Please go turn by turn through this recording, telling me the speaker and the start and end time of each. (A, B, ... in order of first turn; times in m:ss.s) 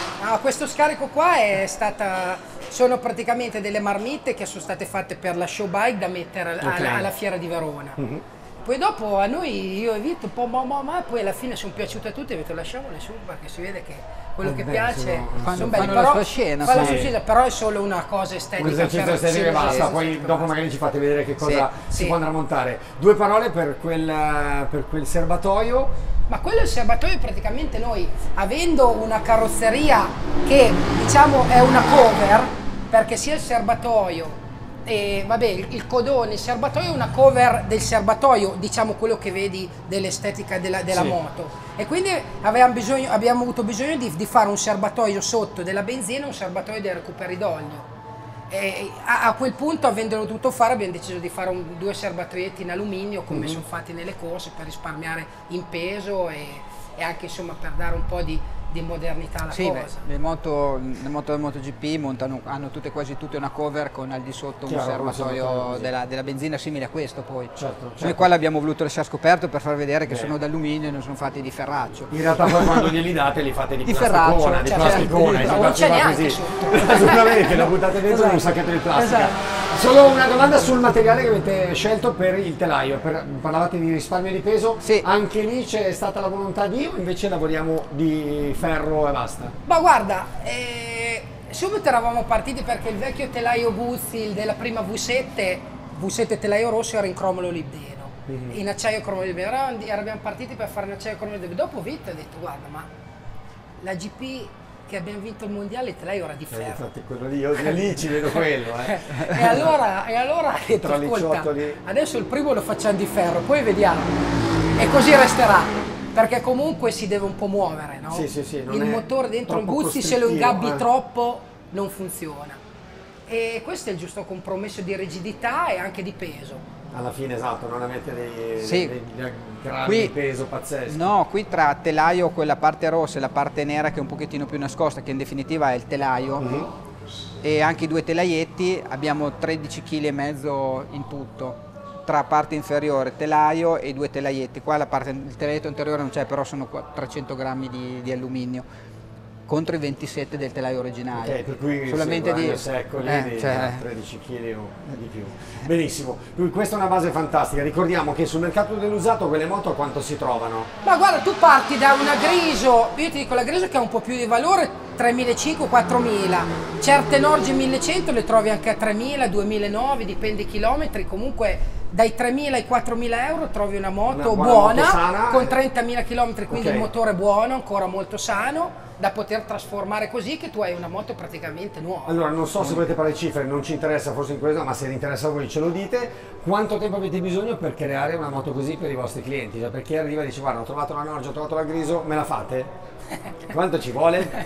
0:00.2-0:08.0 A
0:06.6-0:07.1 B
0:08.0-0:08.2 B
0:08.6-0:20.5 A
0:14.4-0:17.1 B
0:15.4-0:17.0 C
0:18.6-0:25.9 B
0:21.4-0:21.7 C
0:21.9-0:22.2 A
0:26.3-0:47.9 A
0:40.9-0:41.2 B
0:48.5-1:00.0 A
0:53.3-0:53.6 B
0:59.5-1:12.9 C
1:04.7-1:05.9 B
1:07.6-1:08.3 B
1:10.1-1:10.3 B
1:12.1-1:29.6 B
1:13.8-1:15.7 C
1:14.6-1:19.3 A
1:29.7-1:42.9 A
1:38.3-1:38.6 B
1:43.8-1:46.8 A
1:46.5-1:49.7 B
1:48.8-1:54.2 A
1:50.8-1:51.8 B
1:54.8-2:02.6 A
1:58.1-2:00.8 B
2:03.3-2:06.6 A
2:06.9-2:11.1 B
2:08.6-2:08.9 C
2:09.8-2:10.1 C
2:10.9-2:16.6 C
2:16.4-2:16.7 B
2:17.4-2:28.7 C
2:29.5-2:33.8 C
2:31.2-2:40.7 B
2:40.8-3:02.2 A
2:54.1-2:55.6 B
2:56.5-2:56.9 B
3:02.1-3:12.7 B
3:13.5-3:14.3 B